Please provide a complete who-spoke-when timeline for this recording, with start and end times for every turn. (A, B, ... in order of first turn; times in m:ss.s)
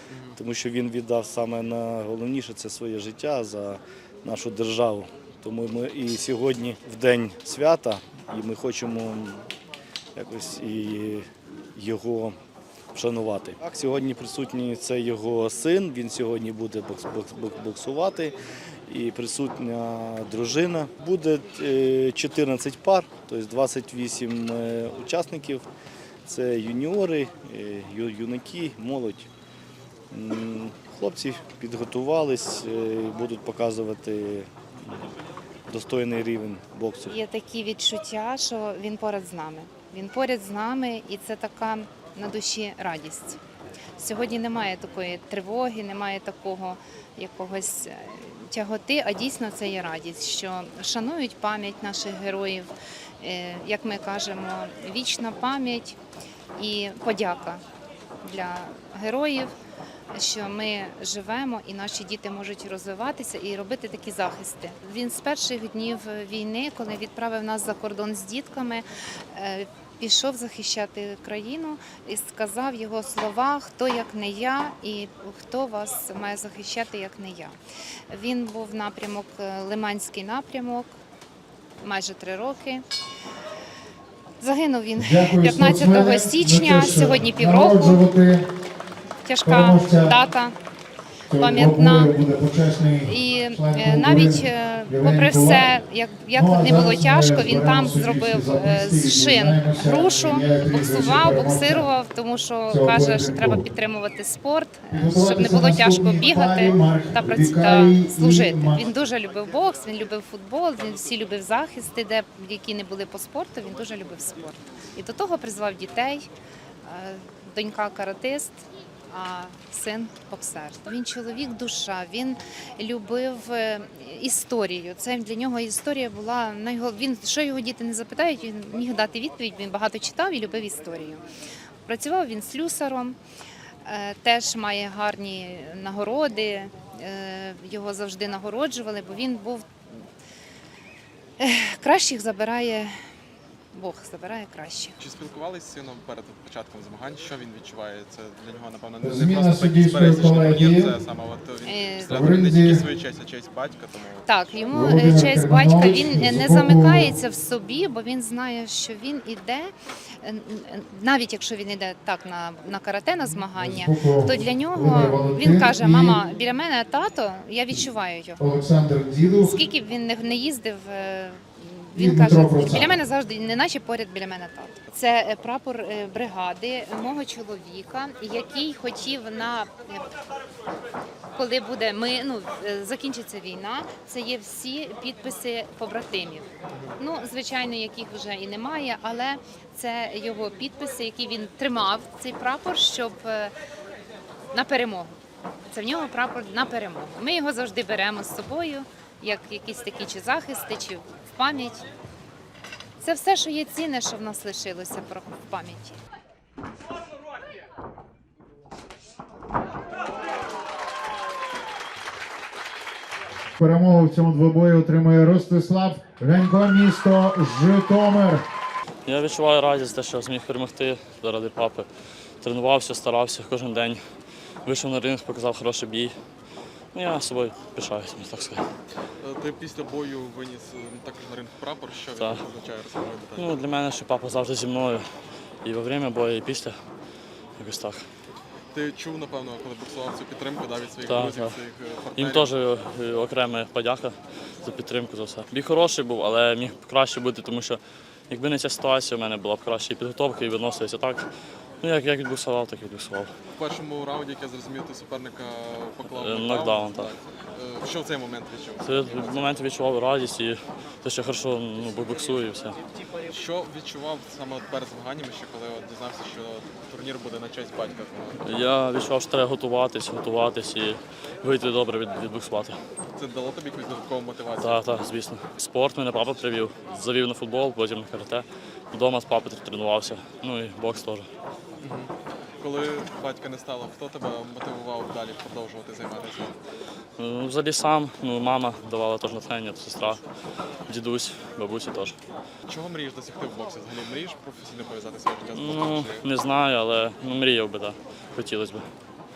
0:00.1-0:00.4 A
0:00.3-0:09.5 B
0:10.2-0:12.4 B
0:12.9-0:25.7 B
0:26.2-0:29.3 B
0:30.1-0:35.0 B
0:35.7-0:37.2 B
0:37.0-0:43.4 C
0:44.0-0:56.0 C
0:56.6-0:57.6 C
0:58.2-0:59.5 C
1:00.1-1:17.6 C
1:18.1-1:21.0 C
1:21.8-1:22.8 C
1:24.4-1:28.0 C
1:24.9-1:28.5 D
1:29.2-1:30.6 C
1:29.4-1:30.2 D
1:31.3-1:35.7 D
1:31.4-1:32.2 C
1:33.0-1:56.3 C
1:36.3-1:41.9 D
1:42.7-1:43.6 D
1:44.9-1:48.8 D
1:56.8-2:11.2 C
2:11.8-2:13.2 C
2:13.8-2:20.0 C
2:21.4-2:22.9 C
2:23.7-2:25.0 C
2:25.0-2:34.5 A
2:29.0-2:30.9 D
2:31.6-2:32.1 C
2:32.1-2:32.8 D
2:34.2-2:48.4 C
2:34.7-2:37.2 D
2:43.5-2:46.2 D
2:48.4-2:49.6 D
2:49.4-3:00.1 C
2:51.9-2:53.0 D
3:01.3-3:13.5 C
3:14.5-3:15.1 C
3:15.7-3:21.8 C
3:23.0-3:26.0 C
3:33.6-3:38.4 D
3:39.0-3:41.9 E
3:42.4-3:44.0 E
3:44.6-3:46.1 E
3:46.9-3:48.7 E
3:49.2-3:53.7 A
3:52.1-3:52.4 E
3:53.4-3:55.0 E
3:55.6-3:56.8 E
3:57.6-3:58.0 E
3:58.7-4:02.6 A
4:01.0-4:01.5 E
4:02.1-4:11.2 E
4:11.8-4:13.3 E
4:13.6-4:19.6 A
4:16.1-4:17.1 E
4:18.8-4:22.8 E
4:23.2-4:28.4 A
4:28.4-4:32.8 E
4:33.1-4:35.0 A
4:34.6-4:41.3 E
4:41.8-4:46.6 A
4:47.2-4:50.2 E
4:50.9-4:52.2 E
4:52.6-4:56.3 A
4:55.5-4:58.8 E